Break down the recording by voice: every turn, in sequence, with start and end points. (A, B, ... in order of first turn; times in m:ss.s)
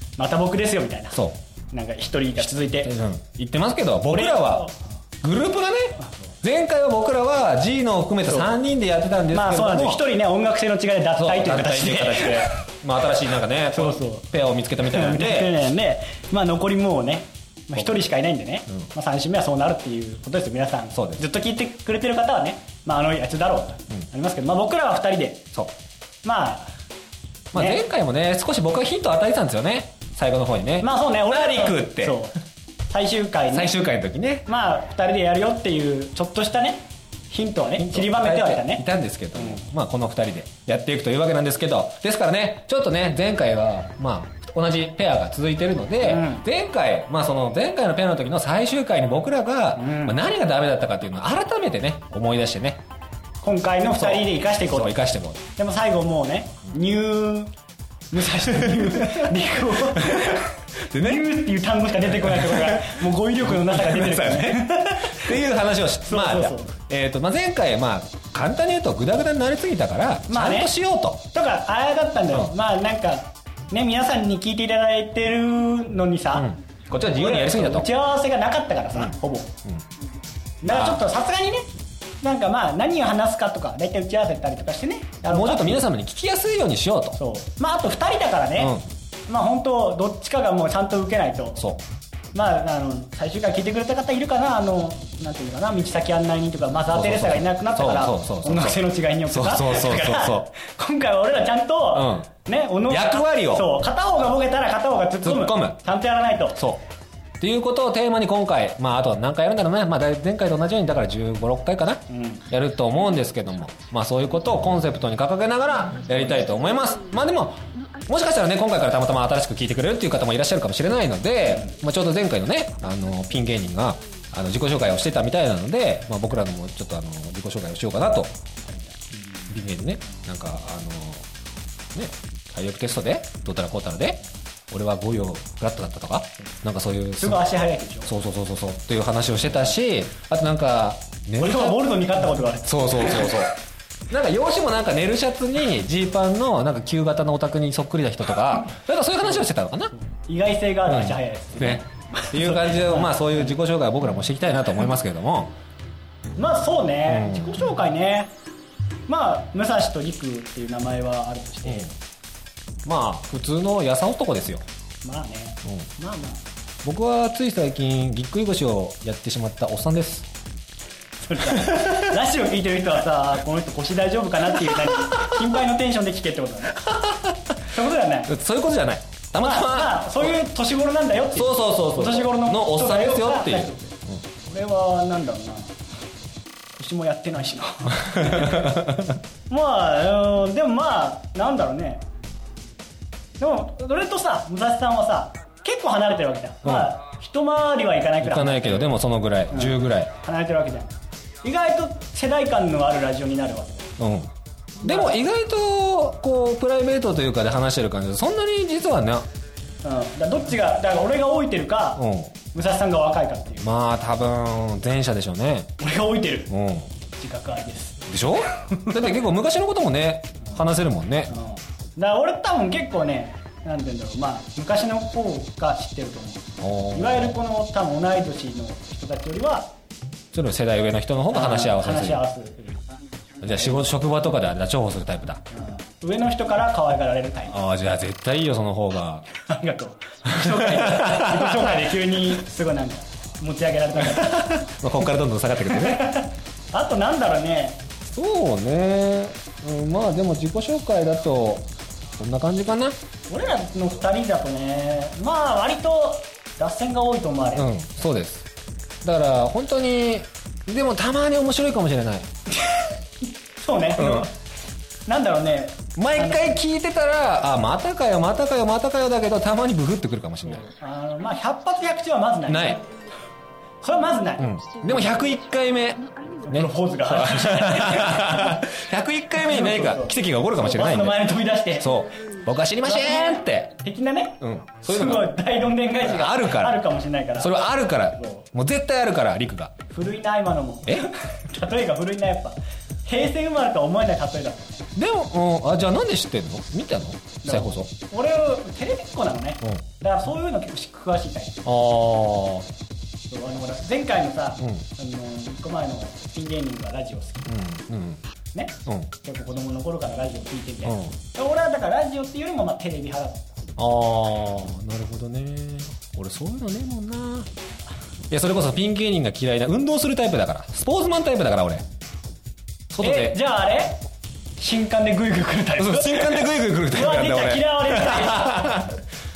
0:00.2-0:01.2 A
0:01.7-0:02.9 A
0:02.8-0:04.7 B
0:04.1-0:04.8 A
0:05.2-0:10.0 B
0:08.3-0:08.6 A
0:09.3-0:12.5 A
0:11.2-0:15.5 B
0:13.7-0:14.3 A
0:14.8-0:25.4 A
0:21.0-0:21.2 B
0:26.2-0:26.7 A
0:27.5-0:27.8 A
0:27.5-0:32.2 B
0:30.8-0:32.4 A
0:32.9-0:33.8 A
0:33.5-0:34.5 B
0:34.5-0:38.8 A
0:37.8-0:52.8 B
0:46.0-0:46.5 A
0:49.8-0:50.2 A
0:53.4-0:55.0 A
0:53.9-0:55.4 B
0:55.6-0:57.5 A
0:58.1-1:05.4 A
0:59.9-1:01.3 B
1:02.1-1:11.2 B
1:06.1-1:06.7 A
1:10.3-1:10.7 A
1:11.3-1:19.5 A
1:16.4-1:17.9 B
1:20.6-1:21.7 A
1:20.7-1:21.0 B
1:22.2-1:25.8 A
1:25.3-1:27.2 B
1:27.2-1:31.6 A
1:28.6-1:28.8 B
1:32.3-1:46.6 A
1:36.9-1:38.8 B
1:39.3-1:40.4 B
1:41.9-1:42.3 B
1:42.9-1:43.7 B
1:45.2-1:45.8 B
1:47.4-2:08.4 B
1:52.1-1:52.5 A
2:08.6-2:09.5 A
2:09.5-2:11.3 B
2:11.9-2:17.4 B
2:17.2-2:18.1 A
2:18.1-2:21.8 B
2:21.4-2:23.5 A
2:22.6-2:23.6 B
2:24.1-2:29.9 B
2:30.3-2:33.5 A
2:30.9-2:35.5 B
2:36.4-2:38.3 A
2:37.1-2:37.6 B
2:39.1-2:41.9 A
2:42.8-2:44.6 B
2:45.0-2:46.4 A
2:46.8-2:50.3 B
2:51.2-2:57.0 A
2:57.6-2:58.3 A
2:58.3-3:00.4 B
2:59.4-3:05.8 A
3:01.3-3:04.2 B
3:06.8-3:08.8 A
3:08.4-3:09.0 B
3:09.5-3:12.0 A
3:13.4-3:18.9 A
3:16.6-3:16.9 B
3:18.2-3:20.1 B
3:19.5-3:23.9 A
3:24.0-3:24.3 B
3:24.8-3:25.2 A
3:24.8-3:29.3 B
3:29.8-3:33.7 A
3:32.0-3:32.3 B
3:33.6-3:35.7 B
3:35.8-3:36.5 A
3:36.5-3:36.9 B
3:37.2-3:38.1 A
3:38.1-3:41.3 B
3:38.6-3:39.2 A
3:41.3-3:49.7 A
3:46.6-3:47.4 B
3:50.3-3:52.2 B
3:51.3-3:52.8 A
3:53.4-3:55.4 B
3:53.5-3:53.9 A
3:55.5-3:57.6 A
3:57.5-3:59.2 B
3:59.4-4:04.6 A
4:00.3-4:01.9 B
4:04.2-4:06.1 B
4:05.7-4:07.8 A
4:08.0-4:11.7 B
4:12.2-4:13.0 B
4:13.3-4:17.7 A
4:17.6-4:18.5 B
4:19.0-4:22.3 B
4:23.6-4:24.4 A
4:24.0-4:24.3 B
4:25.1-4:26.6 A
4:26.0-4:30.7 B
4:30.5-4:32.9 A
4:32.5-4:32.8 B
4:33.8-4:34.6 A
4:34.4-4:43.7 B
4:36.5-4:38.6 A
4:39.4-4:41.9 A
4:42.8-4:47.5 A
4:44.4-4:45.3 B
4:46.0-4:46.8 B
4:47.4-4:49.7 B
4:49.9-4:54.9 A
4:55.0-4:57.9 B
4:57.4-5:01.7 A
5:01.6-5:02.7 B
5:03.3-5:07.5 A
5:07.5-5:08.2 B
5:08.5-5:13.5 A
5:10.9-5:11.2 B
5:13.8-5:17.5 B
5:18.3-5:21.8 B
5:22.9-5:23.4 B
5:23.0-5:24.0 A
5:24.6-5:28.8 A
5:25.8-5:28.9 B